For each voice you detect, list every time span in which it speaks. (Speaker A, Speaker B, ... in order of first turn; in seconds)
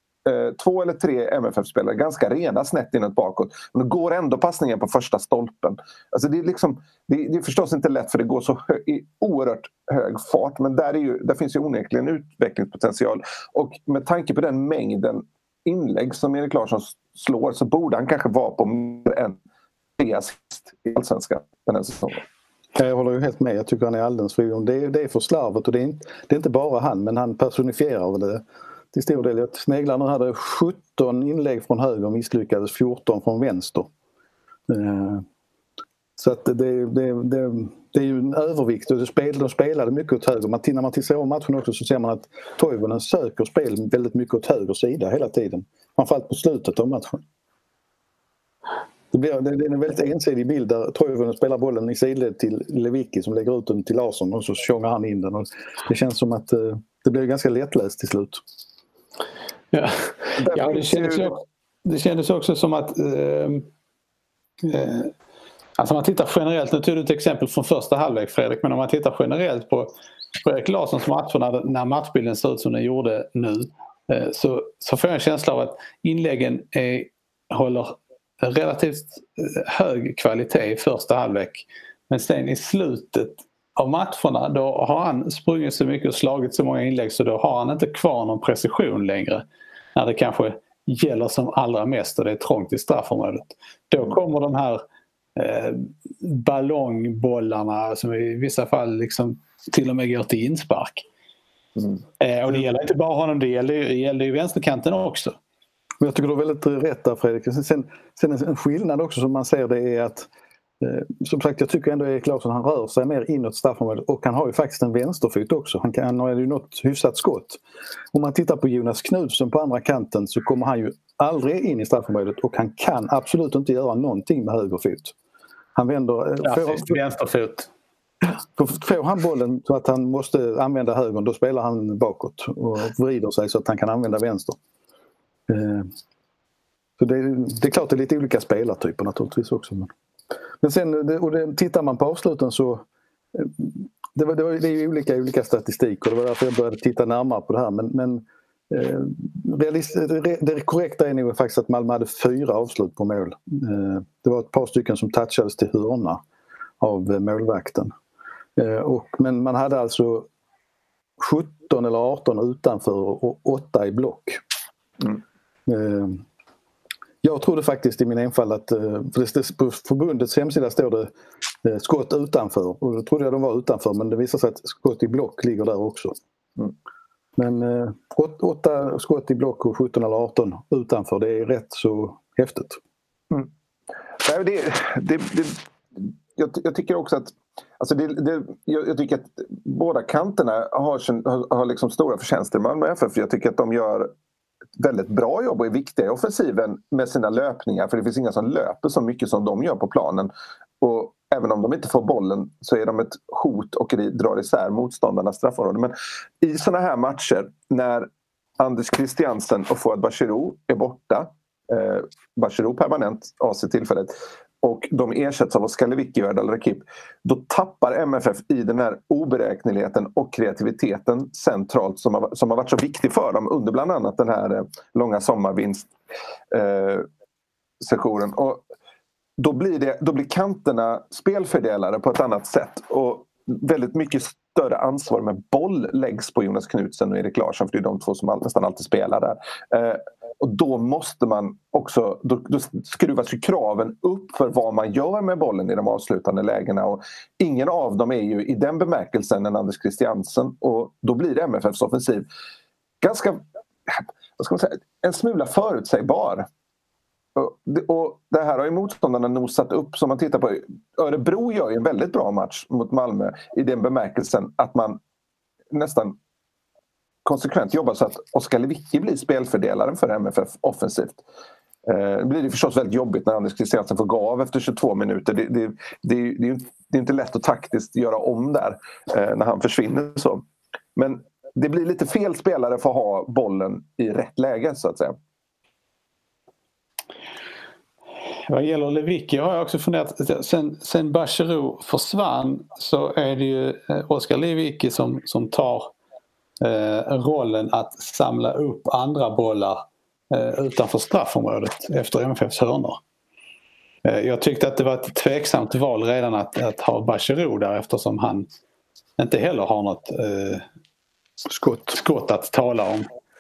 Speaker A: 0.2-19.4, 20.0-22.2, 60.4-61.3, 184.2-194.1, 194.8-225.9, 226.5-227.1, 227.8-228.6, 229.4-252.2, 253.0-256.5, 257.4-265.0, 265.7-266.1, 267.2-271.2, 271.9-280.4, 280.9-285.1
Speaker B: 22.8-33.9, 34.7-35.2, 36.2-47.2, 49.1-58.4, 106.0-110.3, 110.8-117.6, 118.1-125.1, 125.8-127.0, 128.5-134.6, 135.5-135.9, 137.0-139.9, 140.6-156.2, 156.8-157.9, 158.6-160.3, 161.2-164.4, 165.7-166.2, 167.2-171.1, 171.6-176.1, 177.4-182.8, 311.5-312.0
Speaker C: 59.7-63.7, 64.6-65.1, 65.8-89.4, 89.9-94.8, 95.4-101.0, 102.2-105.4, 126.4-127.7, 288.5-295.9, 296.6-303.0, 304.0-308.5, 309.2-310.6, 311.9-313.1